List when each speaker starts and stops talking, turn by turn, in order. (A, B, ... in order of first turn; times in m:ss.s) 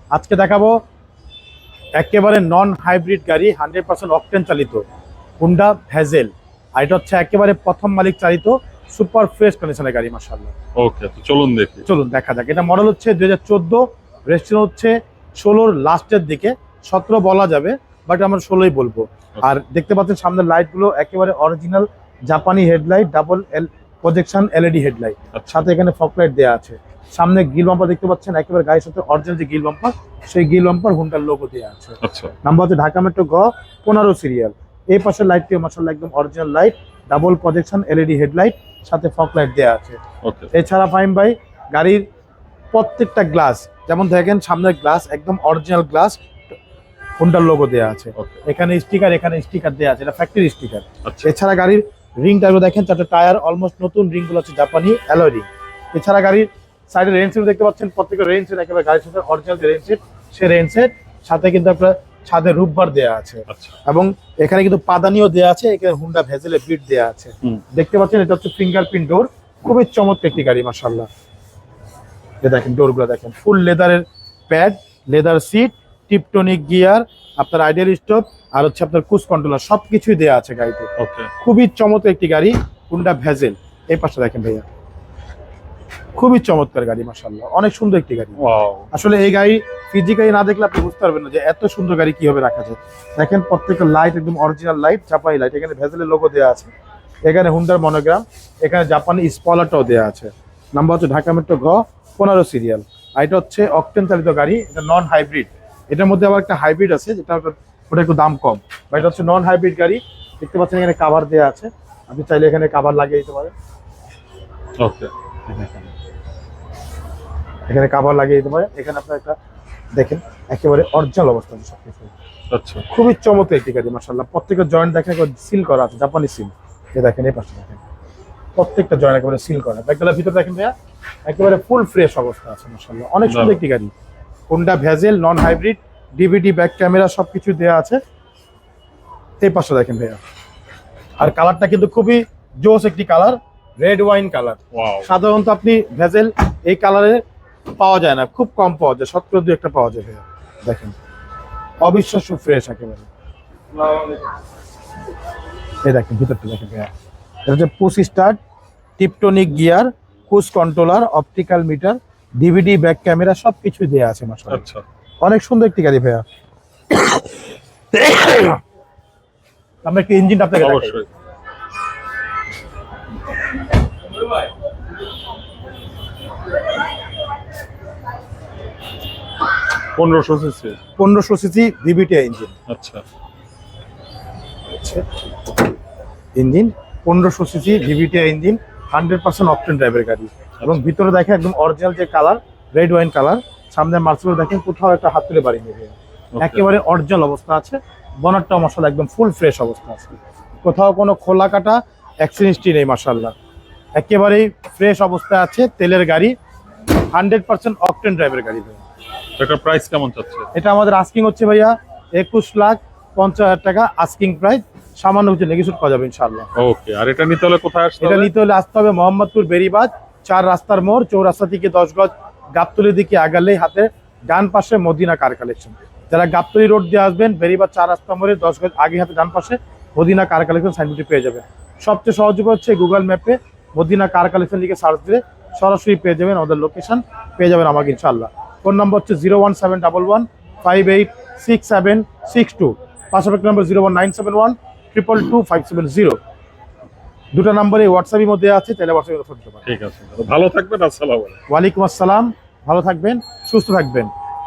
0:00.1-0:00.8 A
0:02.0-0:04.8 A
0:05.4-0:10.5 A
0:10.8-0:11.8 B
0:11.8-0:40.0 A
0:25.3-0:25.6 B
0:32.0-0:32.3 B
0:40.2-0:40.5 B
0:40.5-0:42.0 A
0:42.7-0:46.5 A
0:47.2-1:11.1 A
1:03.5-1:03.8 B
1:12.4-1:20.9 A
1:21.0-1:21.3 B
1:21.4-1:24.6 A
1:26.1-1:28.4 A
1:28.4-1:28.9 B
1:28.9-1:36.7 A
1:37.3-1:53.5 A
1:54.8-1:55.1 B
1:55.5-1:55.9 A
1:57.7-1:59.4 A
1:59.9-2:02.1 A
2:02.5-2:02.8 B
2:02.9-2:07.8 A
2:08.6-2:10.7 A
2:11.2-2:13.9 A
2:13.2-2:13.6 B
2:14.5-2:18.0 A
2:19.4-2:20.2 A
2:21.2-2:27.2 A
2:24.7-2:25.1 B
2:27.8-2:30.9 A
2:31.8-2:33.1 A
2:35.8-2:36.9 A
2:37.4-2:38.4 A
2:39.0-2:44.6 A
2:44.5-2:44.8 B
2:45.2-2:46.2 A
2:47.9-2:48.6 A
2:49.8-2:51.0 A
2:50.6-2:51.1 B
2:59.9-3:00.8 B
3:01.0-3:02.5 A
3:02.7-3:03.0 B
3:04.8-3:05.0 A
3:06.3-3:23.3 A
3:10.6-3:10.9 B
3:16.3-3:16.6 B
3:23.9-3:26.3 A
3:27.1-3:28.8 A
3:29.4-3:30.5 B
3:30.5-3:36.5 A
3:36.6-3:38.3 B
3:38.0-4:06.2 A
4:07.3-4:09.6 A
4:09.6-4:11.4 B
4:11.5-4:14.1 A